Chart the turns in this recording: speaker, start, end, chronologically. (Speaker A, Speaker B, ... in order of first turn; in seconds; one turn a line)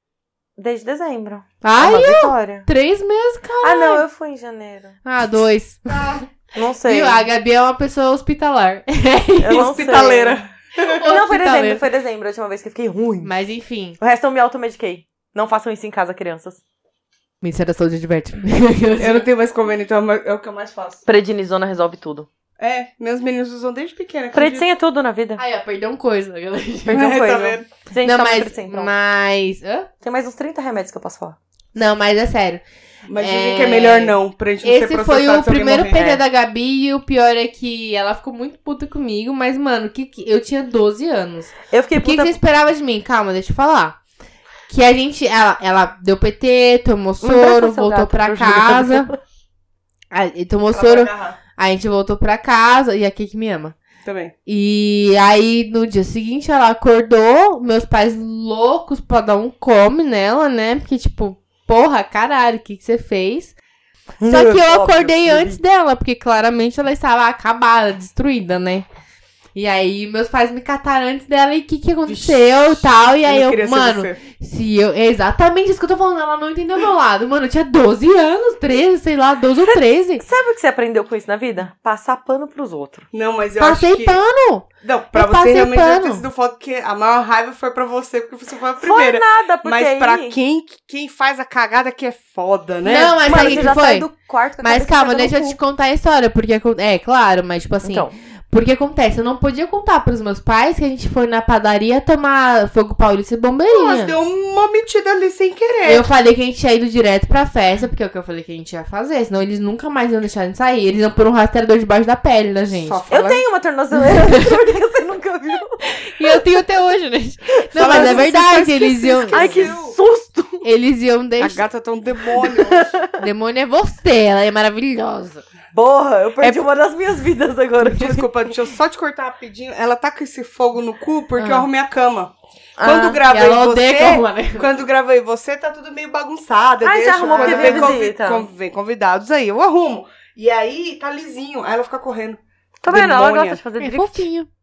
Speaker A: 0.6-2.7
Speaker B: 1.6-4.0
Speaker A: 3.6-5.0
Speaker B: 5.0-6.2
Speaker A: 6.5-7.3
Speaker B: 6.8-9.9
Speaker A: 9.4-10.4
Speaker C: 9.5-11.0
Speaker B: 10.8-11.8
Speaker A: 11.0-13.3
Speaker B: 13.2-14.0
Speaker A: 14.0-16.6
Speaker B: 17.4-19.3
Speaker C: 19.0-21.0
Speaker A: 21.0-22.3
Speaker C: 22.6-24.7
Speaker A: 24.3-25.4
Speaker B: 25.4-27.1
Speaker A: 26.9-28.9
Speaker C: 26.9-27.7
Speaker B: 28.0-29.9
Speaker A: 30.0-31.4
Speaker B: 31.7-32.6
Speaker C: 33.1-36.2
Speaker B: 33.2-44.0
Speaker A: 41.7-42.4
Speaker B: 44.7-49.1
Speaker A: 47.2-49.2
Speaker B: 50.1-53.8
Speaker C: 50.7-51.4
Speaker C: 54.0-54.3
Speaker B: 54.5-63.5
Speaker A: 64.2-65.6
Speaker B: 64.2-68.8
Speaker B: 69.5-80.2
Speaker C: 72.1-74.2
Speaker A: 79.6-83.0
Speaker C: 83.1-84.2
Speaker B: 83.6-86.2
Speaker C: 84.8-93.7
Speaker A: 88.8-90.4
Speaker B: 92.8-94.1
Speaker A: 93.2-95.6
Speaker B: 94.6-104.2
Speaker A: 97.8-98.1
Speaker C: 103.7-106.1
Speaker B: 105.8-113.0
Speaker C: 112.7-113.4
Speaker A: 113.1-115.8
Speaker B: 113.9-114.6
Speaker B: 116.0-119.8
Speaker C: 117.7-120.0
Speaker A: 117.8-118.1
Speaker A: 119.3-120.7
Speaker B: 120.6-121.6
Speaker C: 121.4-122.9
Speaker A: 122.4-123.2
Speaker B: 123.2-125.4
Speaker A: 125.7-128.2
Speaker C: 127.9-143.6
Speaker B: 131.4-131.7
Speaker A: 132.8-133.2
Speaker B: 133.3-134.7
Speaker A: 136.8-138.5
Speaker B: 137.2-138.0
Speaker A: 142.8-144.2
Speaker B: 143.8-144.5